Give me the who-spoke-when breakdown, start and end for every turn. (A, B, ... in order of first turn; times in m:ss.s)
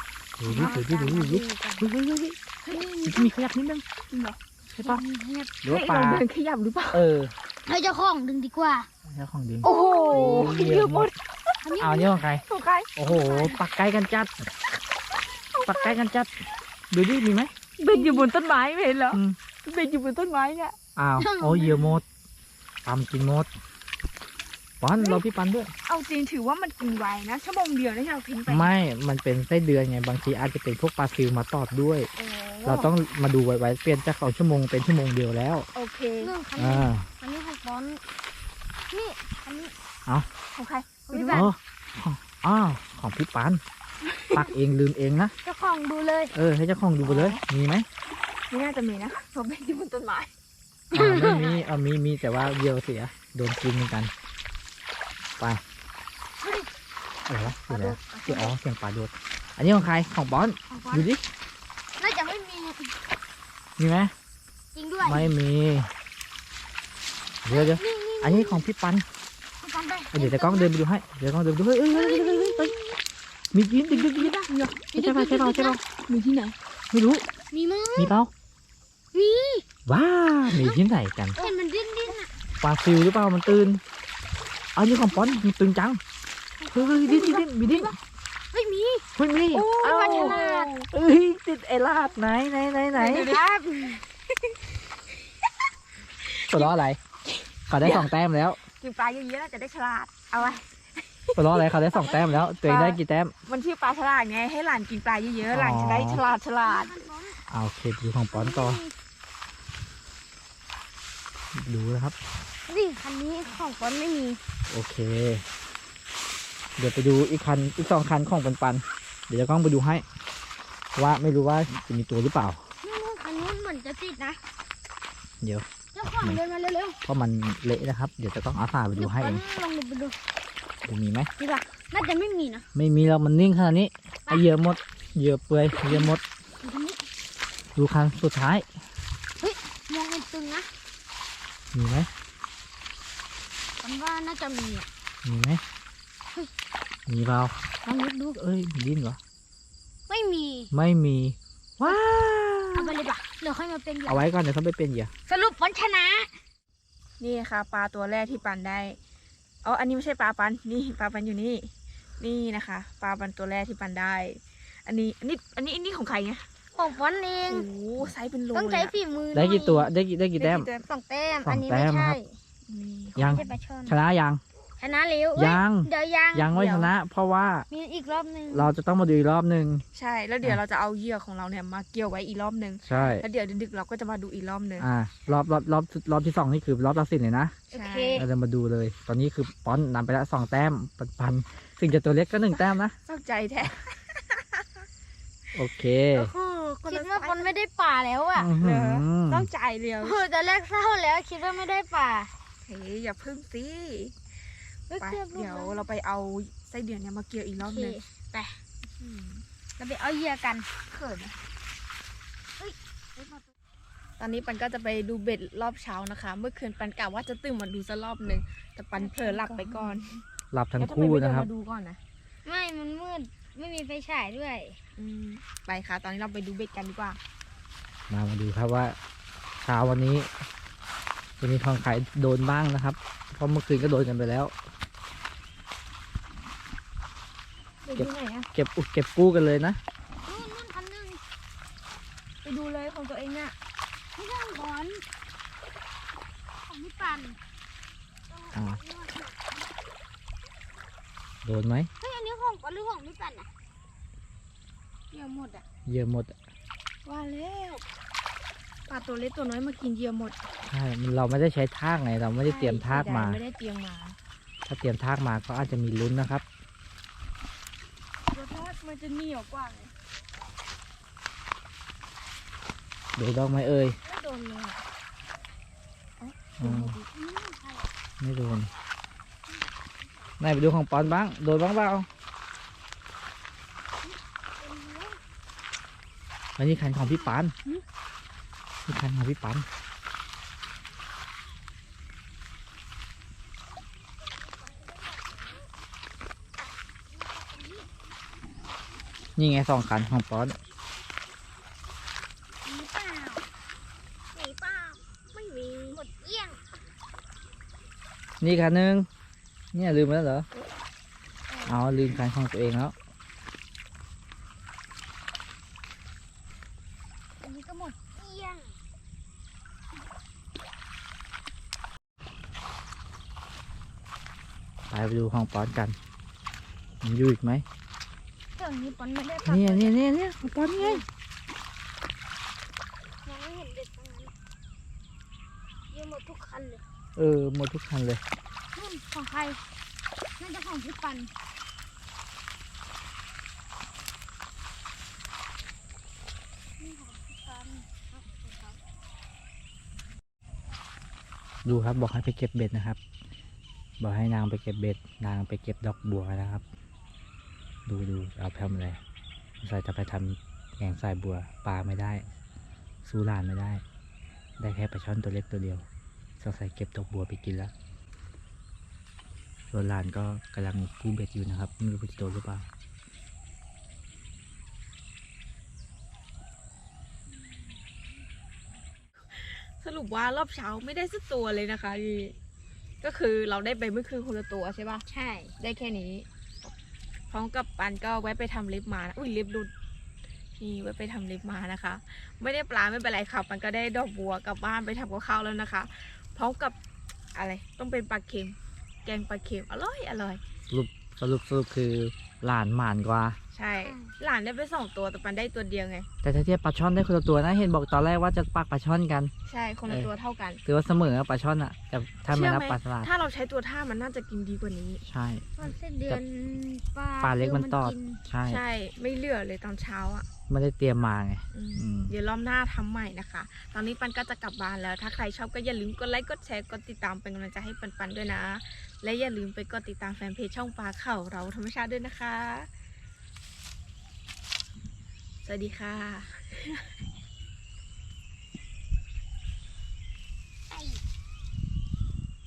0:00.4-0:02.4 A
0:00.4-0:01.9 B
0:02.7-0:03.4 C
0:03.0-0:03.8 A
0:04.1-0:04.4 B
0:04.7-0:05.0 A
0:04.8-0:05.6 C
0:05.6-0:06.2 A
0:05.6-0:07.1 B
0:06.9-0:07.3 A
0:07.7-0:08.9 C
0:09.1-0:11.1 A
0:09.6-0:10.7 C
0:09.6-0:11.6 B
0:11.6-0:12.2 C
0:11.8-0:12.4 A
0:12.2-0:13.0 B
0:13.0-0:14.3 A
0:13.0-0:13.6 C
0:15.1-0:16.0 B
0:15.6-0:16.3 A
0:16.9-0:17.5 A
0:17.8-0:20.8 B
0:17.9-0:18.3 C
0:19.1-0:19.4 A
0:21.0-0:22.0 A
0:21.2-0:22.0 C
0:22.8-0:23.5 A
0:24.8-0:25.7 A
0:25.0-0:25.2 B
0:25.9-0:28.8 B
0:28.5-0:32.1 A
0:32.2-0:33.0 B
0:32.6-0:35.7 A
0:35.7-0:36.4 B
0:36.2-0:38.0 C
0:36.6-0:37.1 A
0:38.9-0:39.7 C
0:40.6-0:41.5 B
0:41.1-0:41.5 C
0:41.3-0:43.6 A
0:44.1-0:44.5 B
0:44.3-0:45.4 A
0:45.4-0:46.3 C
0:46.3-0:47.9 A
0:47.0-0:47.4 B
0:48.5-0:50.3 B
0:50.9-0:51.6 C
0:50.9-0:54.1 A
0:56.4-0:56.7 C
0:57.3-1:01.3 A
0:57.8-0:58.6 B
1:00.7-1:01.1 C
1:02.0-1:02.9 C
1:03.8-1:04.1 A
1:04.8-1:05.4 C
1:05.0-1:05.9 A
1:07.4-1:09.1 A
1:07.5-1:08.6 C
1:09.6-1:10.7 C
1:10.1-1:12.8 A
1:11.9-1:13.0 C
1:13.5-1:14.4 A
1:13.9-1:15.8 C
1:14.4-1:16.6 B
1:15.0-1:15.8 A
1:16.9-1:17.2 A
1:17.5-1:18.2 C
1:18.0-1:18.3 A
1:19.1-1:19.7 C
1:19.9-1:21.4 A
1:20.5-1:20.8 C
1:21.4-1:22.4 C
1:22.6-1:23.8 A
1:24.8-1:26.0 A
1:26.6-1:27.9 C
1:26.7-1:28.0 A
1:28.5-1:30.7 C
1:29.2-1:33.3 A
1:29.9-1:30.9 B
1:33.0-1:34.0 C
1:33.0-1:33.4 B
1:34.3-1:34.6 B
1:36.3-1:36.7 B
1:36.5-1:37.0 A
1:37.7-1:38.6 A
1:37.7-1:38.2 B
1:38.8-1:47.1 B
1:41.4-1:43.3 A
1:45.5-1:46.2 A
1:46.1-1:47.4 C
1:47.5-1:48.8 A
1:48.3-1:48.9 C
1:51.6-1:52.2 A
1:52.7-1:54.4 C
1:54.7-1:55.4 A
1:56.8-2:00.0 A
2:01.0-2:02.6 A
2:02.8-2:04.4 C
2:05.9-2:07.0 C
2:07.0-2:09.4 A
2:08.9-2:10.2 C
2:10.8-2:11.3 A
2:11.4-2:12.7 C
2:12.8-2:16.2 A
2:15.8-2:17.0 C
2:17.8-2:18.7 A
2:19.4-2:20.7 C
2:21.7-2:22.1 A
2:23.8-2:24.9 C
2:25.2-2:25.6 A
2:27.1-2:27.5 A
2:27.8-2:28.4 C
2:28.4-2:29.2 A
2:30.1-2:30.7 C
2:30.7-2:33.0 A
2:32.7-2:34.3 C
2:34.1-2:35.1 A
2:35.3-2:36.3 C
2:37.2-2:39.0 B
2:39.6-2:46.4 B
2:46.8-2:47.7 C
2:47.4-2:49.0 B
2:48.5-2:49.9 C
2:49.3-2:50.7 A
2:50.4-2:50.8 B
2:50.8-2:52.4 C
2:51.4-2:52.2 A
2:52.7-2:53.5 B
2:53.2-2:54.4 A
2:53.2-2:54.0 C
2:54.8-2:56.6 C
2:55.4-2:57.7 A
2:56.5-2:56.9 B
2:57.7-2:58.7 C
2:58.5-2:59.8 A
2:59.9-3:04.9 B
3:02.8-3:03.2 A
3:04.8-3:07.6 A
3:07.7-3:08.3 C
3:07.7-3:08.3 B
3:08.1-3:13.0 A
3:12.5-3:14.8 B
3:15.6-3:16.3 A
3:16.1-3:18.5 C
3:16.9-3:17.6 B
3:18.4-3:19.5 A
3:18.5-3:20.2 B
3:20.0-3:22.3 C
3:22.6-3:24.2 B
3:24.9-3:25.9 C
3:25.0-3:28.0 B
3:27.6-3:28.6 C
3:29.0-3:29.4 B
3:29.8-3:30.7 C
3:30.9-3:31.4 B
3:32.6-3:33.5 C
3:34.2-3:40.2 B
3:39.0-3:40.0 C
3:40.5-3:41.5 A
3:40.8-3:42.0 B
3:42.4-3:44.8 C
3:45.0-3:47.2 B
3:48.1-3:49.0 A
3:49.6-3:50.3 A
3:51.4-3:54.5 A
3:57.8-3:58.5 B
3:58.0-3:59.8 A
4:00.2-4:01.2 C
4:02.4-4:03.6 B
4:04.2-4:05.0 C
4:06.7-4:07.4 C
4:08.3-4:09.4 C
4:08.5-4:08.8 A
4:11.4-4:11.9 A
4:12.0-4:13.5 C
4:15.1-4:15.6 B
4:15.9-4:16.4 A
4:17.0-4:17.8 B
4:18.9-4:20.5 B
4:20.7-4:23.4 A
4:22.4-4:24.2 B
4:24.7-4:26.4 A
4:28.3-4:29.9 B
4:33.2-4:34.0 A
4:34.0-4:34.8 C
4:36.2-4:37.1 B
4:36.6-4:37.0 A
4:36.6-4:37.9 C
4:38.2-4:38.7 A
4:40.4-4:42.1 A
4:44.6-4:45.2 C
4:46.6-4:47.6 A
4:46.7-4:47.8 C
4:48.9-4:49.7 A
4:54.5-4:55.6 C
4:57.1-4:57.9 C
4:59.4-5:00.6 A
5:02.6-5:03.5 C
5:04.4-5:06.0 B
5:05.9-5:06.6 C
5:08.4-5:09.1 A
5:09.7-5:10.5 A
5:11.5-5:12.2 C
5:11.7-5:13.0 A
5:17.4-5:18.8 C
5:24.9-5:26.0 A
5:27.0-5:27.6 A
5:28.6-5:30.0 C
5:29.4-5:31.0 A
5:30.8-5:31.0 C
5:33.2-5:34.3 C
5:35.9-5:36.8 C
5:37.2-5:38.2 A
5:38.8-5:39.6 C
5:40.4-5:41.3 C
5:46.8-5:48.8 C
5:51.6-5:53.0 A
5:54.0-5:56.6 A
5:57.9-5:59.0 A
5:59.6-6:02.2 A
6:03.1-6:03.8 A
6:04.6-6:05.9 A
6:06.4-6:07.7 A
6:09.7-6:12.7 A
6:19.3-6:22.4 B
6:23.0-6:25.0 B
6:25.1-6:25.5 C
6:25.6-6:26.3 B
6:27.3-6:29.7 B
6:30.6-6:36.8 B
6:37.4-6:40.4 B
6:40.7-6:43.4 A
6:43.5-6:46.1 B
6:43.8-6:44.2 C
6:46.2-6:49.3 A
6:49.5-6:50.6 B
6:49.9-6:50.1 A
6:50.6-6:53.1 A
6:52.3-6:55.0 B
6:55.1-6:56.2 A
6:55.6-6:58.2 C
6:57.2-6:58.6 A
6:58.5-7:00.3 B
7:00.5-7:02.1 A
7:01.5-7:12.7 B
7:15.4-7:17.0 B
7:20.7-7:21.0 C